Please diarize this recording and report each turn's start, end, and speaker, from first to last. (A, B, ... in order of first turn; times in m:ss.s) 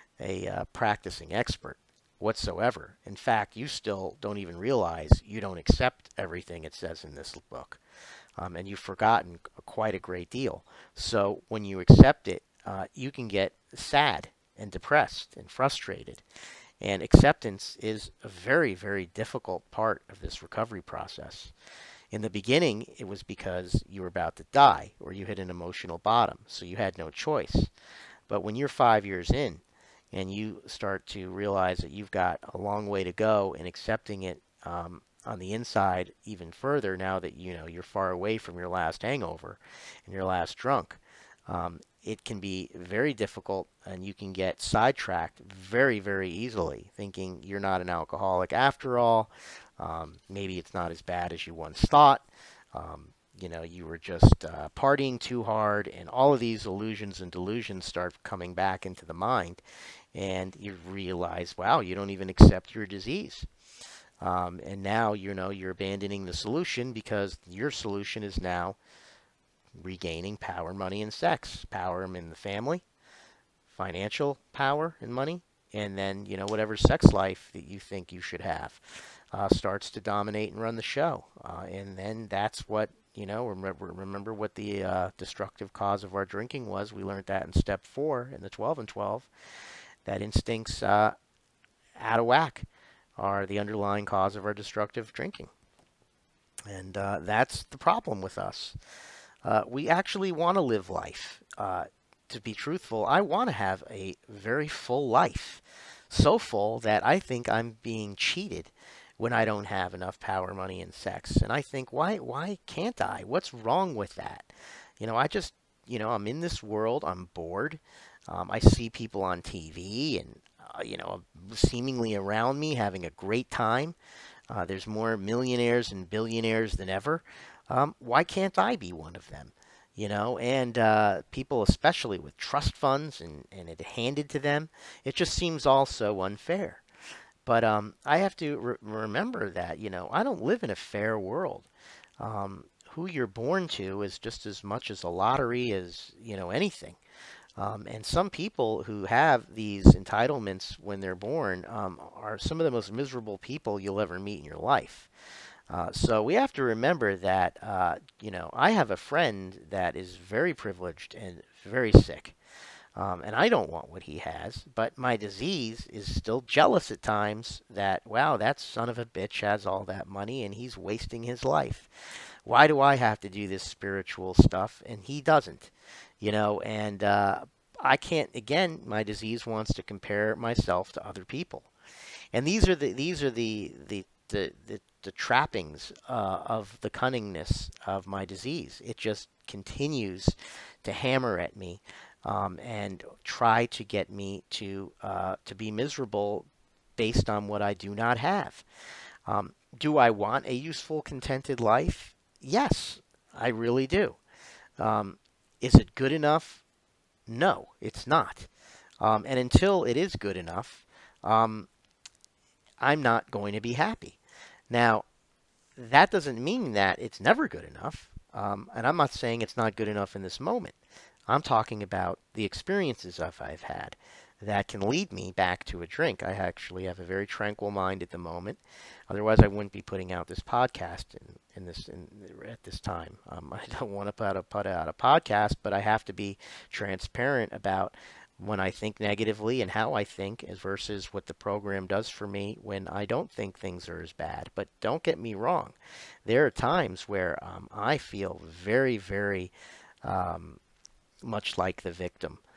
0:00.2-0:07.8 A
0:08.4-0:16.2 A
0:16.8-0:21.5 A
0:22.1-0:27.7 A
0:28.3-0:29.6 A
0:30.1-0:59.6 A
1:00.1-1:03.5 A
1:04.2-1:08.8 A
1:09.8-1:12.8 A
1:13.7-1:29.3 A
1:30.0-1:31.1 A
1:32.0-1:35.5 A
1:36.7-1:38.8 A
1:39.4-2:04.0 A
2:04.5-2:16.8 A
2:17.4-2:21.7 A
2:22.2-2:27.0 A
2:27.6-2:35.1 A
2:35.7-2:42.4 A
2:43.0-3:01.7 A
3:02.3-3:18.6 A
3:19.2-3:24.2 A
3:24.8-3:26.6 A
3:27.3-3:28.5 A
3:29.0-3:31.7 A
3:32.8-3:34.2 A
3:34.7-3:35.0 A
3:35.8-3:40.7 A
3:41.3-4:09.5 A
4:10.0-4:10.6 A
4:11.2-4:12.4 A